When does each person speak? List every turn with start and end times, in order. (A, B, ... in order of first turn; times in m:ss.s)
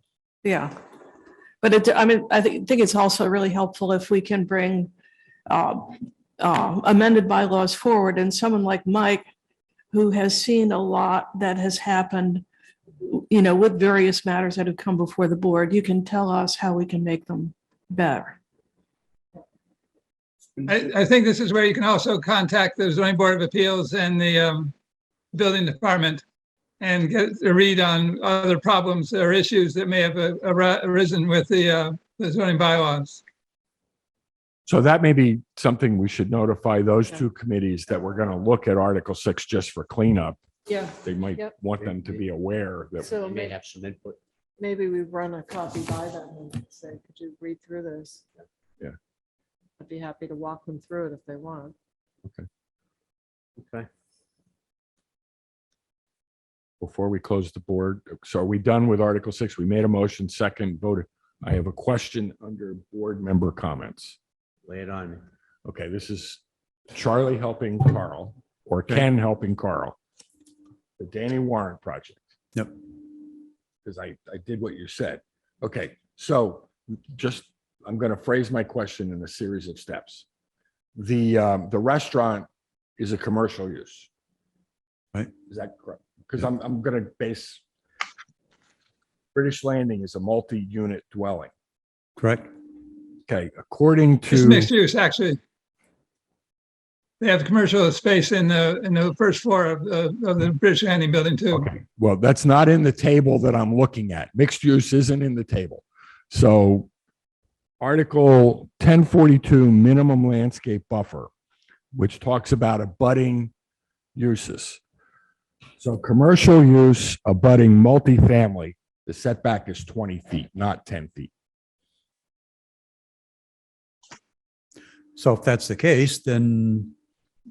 0:00.4-0:00.7 A
0:01.6-0:04.9 A
0:05.5-0:09.2 A
0:09.9-0:12.4 A
0:13.0-0:18.4 A
0:20.6-0:24.7 B
0:25.3-0:26.2 B
0:26.8-0:33.2 B
0:34.7-0:40.4 C
0:40.7-0:41.5 D
0:41.0-0:43.1 C
0:41.8-0:42.2 E
0:43.0-0:43.5 D
0:43.1-0:44.2 E
0:44.6-0:48.2 D
0:49.8-0:51.8 D
0:53.6-0:53.9 E
0:56.8-1:04.2 C
1:04.6-1:05.2 E
1:05.6-1:06.4 C
1:06.9-1:10.0 C
1:11.0-1:12.2 C
1:13.8-1:20.2 C
1:21.0-1:22.5 C
1:23.0-1:24.1 C
1:25.5-1:27.6 C
1:29.3-1:31.5 C
1:32.2-1:32.5 F
1:33.3-1:34.7 C
1:34.3-1:35.4 B
1:37.2-1:41.7 B
1:41.5-1:46.9 C
1:47.8-1:51.3 C
1:51.9-1:53.5 C
1:54.2-1:54.8 C
1:55.8-2:01.3 C
2:05.2-2:06.9 F